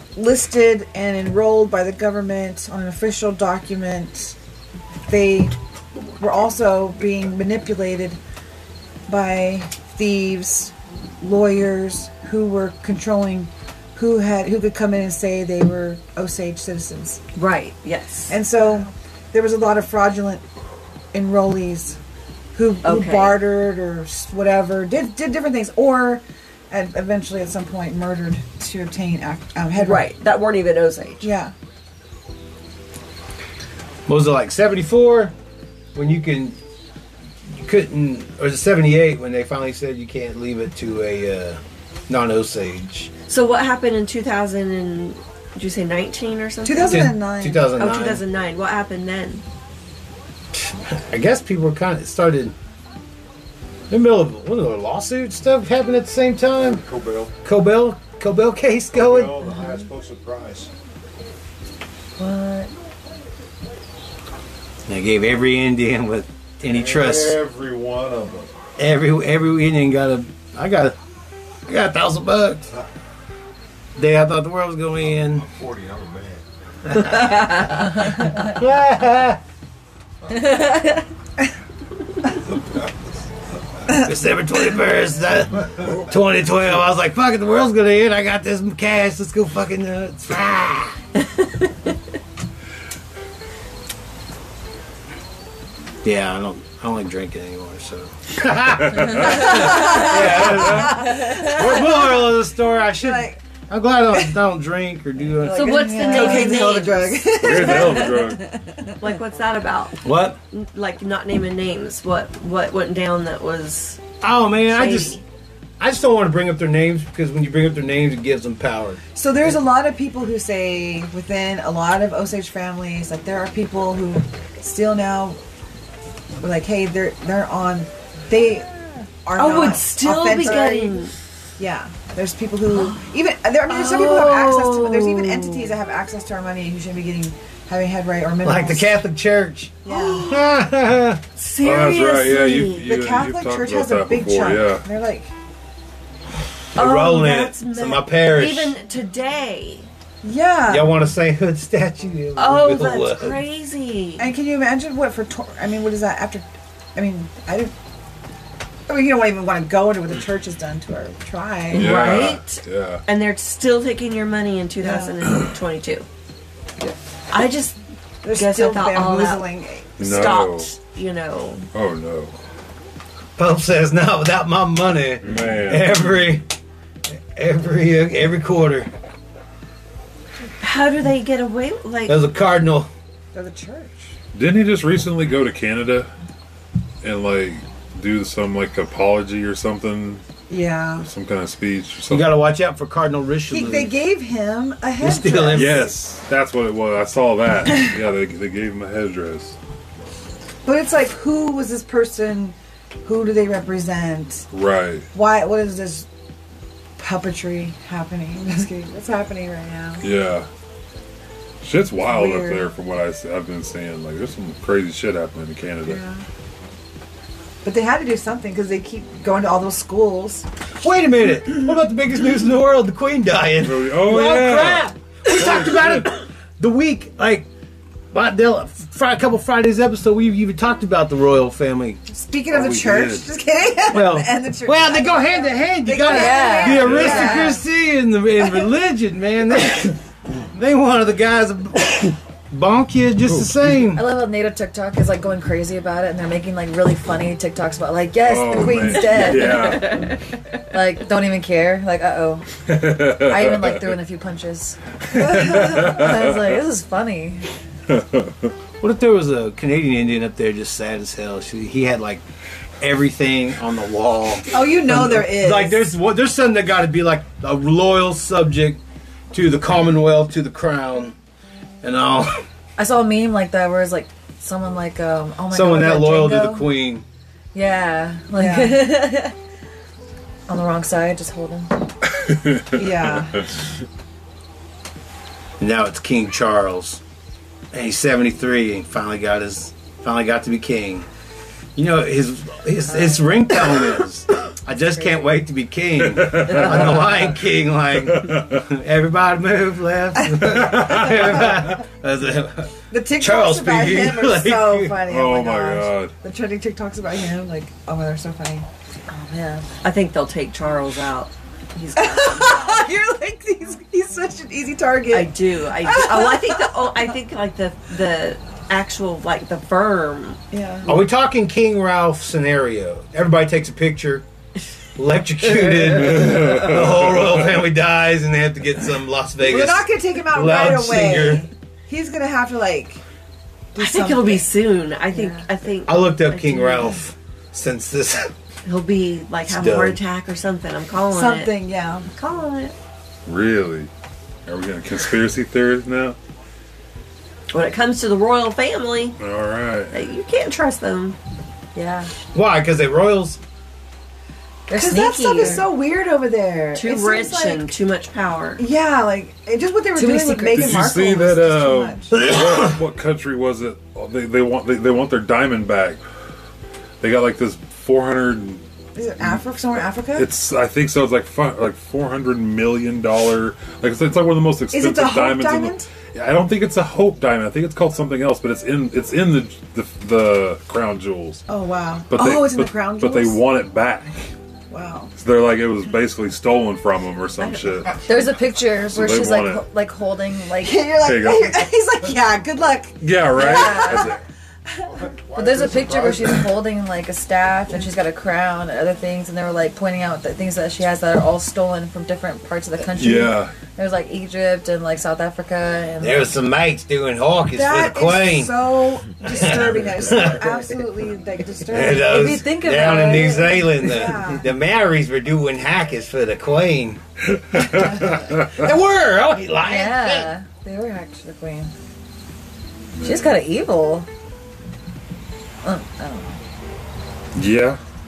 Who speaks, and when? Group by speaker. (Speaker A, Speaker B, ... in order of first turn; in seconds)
Speaker A: 0.1-4.3, 5.1-5.5, 6.2-8.2, 9.1-17.2, 18.3-20.4, 21.1-22.0, 22.5-30.1, 31.2-31.5, 46.6-47.7, 99.3-102.4, 103.0-103.4, 104.1-104.3, 105.4-108.4, 119.1-125.4, 126.4-139.0, 139.8-140.3, 142.8-145.3, 150.2-151.0, 154.2-156.4, 156.9-157.7, 158.9-161.9, 164.8-165.2, 168.2-169.9, 183.3-184.2, 190.5-191.1, 193.5-195.9, 200.6-204.5, 205.1-206.1, 207.0-210.0, 212.0-212.7, 215.8-216.2, 217.6-220.4, 232.1-237.6, 248.6-249.4, 264.5-265.9, 278.4-278.9, 282.7-283.4, 300.2-300.9, 302.9-308.6, 311.9-317.1, 320.5-321.0, 329.4-333.0, 333.7-334.4, 341.1-342.1, 354.7-357.7, 358.6-362.2, 368.9-370.3, 374.7-375.9, 381.5-383.4, 384.7-385.1, 387.4-387.9, 390.6-394.2, 407.5-414.4, 417.7-418.1
Speaker B: 17.3-18.4, 22.8-23.4, 29.8-31.3, 43.3-47.2, 47.8-49.4, 91.2-91.7, 99.3-100.2, 100.9-101.7, 105.5-108.1, 109.0-114.0, 114.7-115.2, 129.3-131.1, 132.7-133.0, 133.7-135.8, 139.9-140.5, 141.3-142.8, 146.7-149.9, 152.3-154.3, 161.7-166.0, 167.3-169.5, 170.0-171.7, 180.6-182.3, 249.2-250.2, 309.8-312.9, 315.1-320.4, 333.8-337.0, 338.6-341.5, 342.1-342.7, 347.5-349.2, 349.9-351.2, 354.8-355.7, 356.7-358.6
Speaker C: 34.1-35.3, 35.9-36.6, 37.5-43.1, 46.8-48.2, 50.5-52.5, 53.9-56.8, 57.4-59.3, 64.9-67.4, 68.8-71.0, 71.7-72.7, 74.0-75.5, 77.0-79.4, 84.0-91.0, 96.0-105.8, 110.0-110.4, 114.2-115.2, 115.8-119.0, 138.4-141.2, 146.7-148.8, 150.7-153.4, 173.4-176.5, 177.1-178.9, 182.1-182.9, 192.1-194.0, 195.0-195.9, 220.8-227.5, 228.1-232.0, 233.9-240.0, 240.5-244.1, 258.8-262.2, 262.8-271.1, 271.8-272.4, 275.5-277.1, 285.6-287.0, 287.7-291.1, 291.8-305.0, 320.9-324.2, 325.0-331.5, 335.9-338.3, 339.4-340.0, 352.3-353.4, 406.0-410.5, 411.7-417.0, 417.6-420.3
Speaker D: 56.5-57.3, 58.9-60.7, 66.7-68.5, 75.0-76.4, 394.8-396.5
Speaker E: 59.5-59.9, 62.2-62.7, 105.5-106.9, 236.0-237.6, 243.9-250.1, 250.7-252.5, 253.1-257.4, 272.8-276.7, 277.5-279.3, 280.5-281.8, 294.9-295.3, 309.1-309.7, 351.7-352.1, 354.7-355.6, 359.9-360.9, 388.0-390.9, 393.4-394.0, 395.3-406.3, 411.9-413.9, 419.6-421.7, 423.0-424.1, 425.6-426.3
Speaker F: 98.9-99.5, 100.5-100.9, 107.3-108.4, 141.6-144.8, 161.7-163.0, 170.0-170.7, 171.7-172.3, 175.2-176.3, 184.3-186.1, 187.0-190.2, 191.0-192.3, 195.5-199.5, 204.5-205.1, 210.0-210.5, 211.6-216.0, 223.6-226.1, 232.5-233.3, 236.7-237.3, 243.3-243.6, 248.2-250.1, 252.7-254.0, 255.1-256.6, 257.9-258.5, 282.1-283.5, 296.0-297.2, 298.1-298.6, 300.5-301.8, 305.0-306.1, 325.8-327.6, 343.2-343.9, 344.4-346.2, 349.2-350.0, 360.5-366.0, 367.0-368.6, 370.1-381.4, 382.1-384.2, 385.1-388.0, 388.8-389.6, 391.0-391.7, 393.0-394.2, 402.9-403.5, 417.3-418.6, 423.0-423.4, 427.3-427.8